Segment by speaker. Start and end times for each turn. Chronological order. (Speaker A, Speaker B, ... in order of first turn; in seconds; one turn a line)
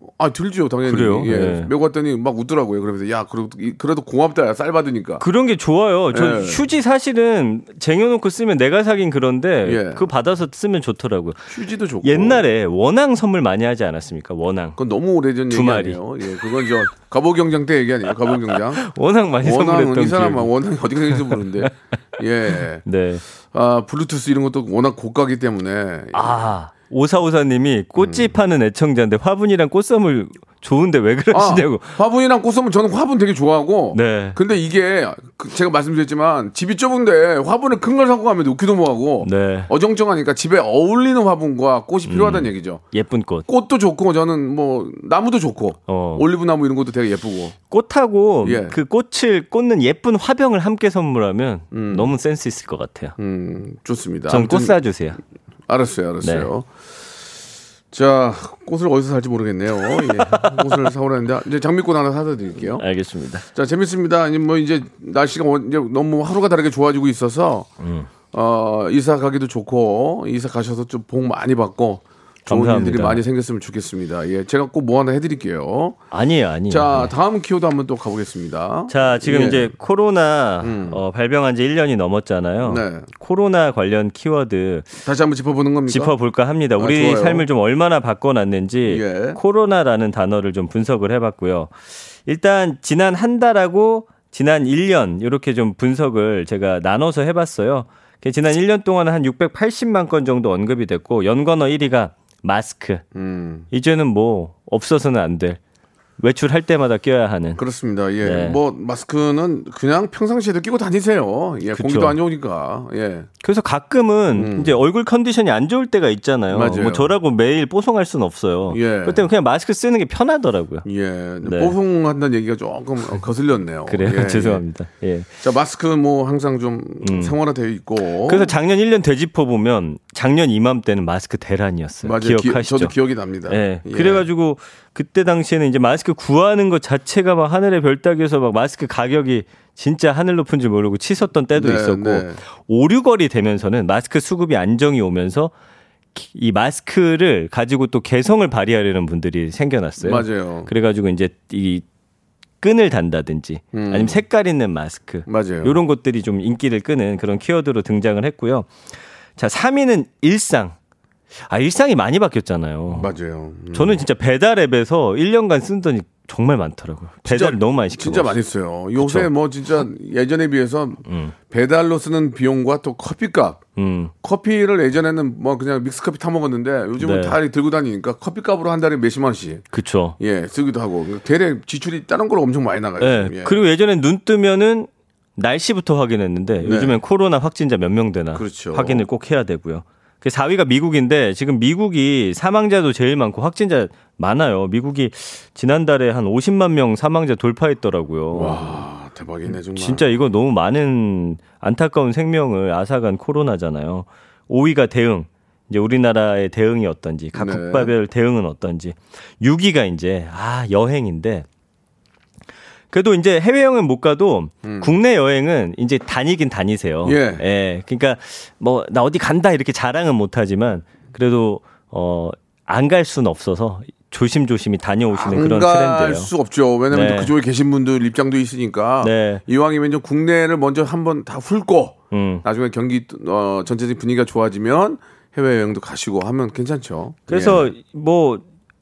Speaker A: 0.2-5.2
Speaker B: 0.9-1.7
Speaker B: 5.2-11.5
Speaker A: 6.1-6.7
Speaker A: 9.6-10.1
Speaker A: 11.5-12.4
Speaker B: 12.0-14.8
Speaker A: 14.8-18.8
Speaker B: 15.5-16.0
Speaker B: 18.8-20.5
Speaker A: 19.4-22.8
Speaker B: 21.2-21.7
Speaker B: 22.9-23.2
Speaker A: 23.5-26.5
Speaker B: 26.1-32.0
Speaker A: 28.0-28.3
Speaker A: 31.3-42.8
Speaker B: 33.9-34.4
Speaker B: 39.2-39.7
Speaker B: 42.1-43.5
Speaker A: 43.5-47.5
Speaker B: 45.9-46.2
Speaker B: 47.7-53.2
Speaker A: 48.4-48.8
Speaker A: 51.7-52.1
Speaker A: 53.2-54.8
Speaker B: 54.3-55.2
Speaker A: 55.7-56.7
Speaker B: 56.2-56.5
Speaker A: 57.9-62.8
Speaker B: 60.2-60.9
Speaker B: 62.8-63.5
Speaker A: 63.5-67.7
Speaker B: 67.8-68.1
Speaker A: 68.3-76.0
Speaker B: 72.5-73.2
Speaker B: 76.1-77.1
Speaker A: 76.7-79.7
Speaker B: 78.9-84.9
Speaker A: 80.6-81.0
Speaker A: 82.6-83.1
Speaker A: 85.0-86.1
Speaker B: 85.9-91.7
Speaker A: 86.8-87.5
Speaker A: 88.8-89.4
Speaker B: 92.3-103.0
Speaker A: 103.1-103.7
Speaker B: 103.7-105.6
Speaker B: 106.2-107.6
Speaker A: 107.6-113.3
Speaker B: 108.2-108.6
Speaker B: 111.7-112.2
Speaker B: 113.4-120.9
Speaker A: 114.3-114.8
Speaker A: 116.5-117.1
Speaker A: 118.7-119.2
Speaker A: 120.8-124.6
Speaker B: 121.4-121.7
Speaker B: 123.9-125.3
Speaker A: 125.4-128.5
Speaker B: 127.0-127.3
Speaker B: 128.3-132.9
Speaker A: 132.0-134.2
Speaker B: 133.5-145.5
Speaker A: 141.6-142.4
Speaker B: 146.2-151.8
Speaker A: 150.0-150.7
Speaker B: 152.6-158.7
Speaker A: 153.7-154.2
Speaker A: 155.3-155.8
Speaker B: 159.4-160.8
Speaker B: 161.5-163.1
Speaker A: 162.9-164.0
Speaker B: 163.7-168.4
Speaker A: 167.2-173.6
Speaker B: 169.0-169.3
Speaker B: 171.1-171.3
Speaker B: 173.8-174.1
Speaker A: 174.2-179.7
Speaker B: 177.0-177.4
Speaker B: 179.7-180.2
Speaker A: 180.2-183.6
Speaker B: 183.0-198.8
Speaker A: 186.6-186.9
Speaker A: 188.3-189.1
Speaker A: 198.3-200.1
Speaker B: 199.8-211.5
Speaker A: 207.3-207.9
Speaker B: 212.9-226.3
Speaker A: 214.6-215.0
Speaker A: 217.0-217.4
Speaker A: 225.2-237.7
Speaker B: 226.9-227.3
Speaker B: 229.0-229.4
Speaker B: 232.1-232.4
Speaker B: 237.3-238.4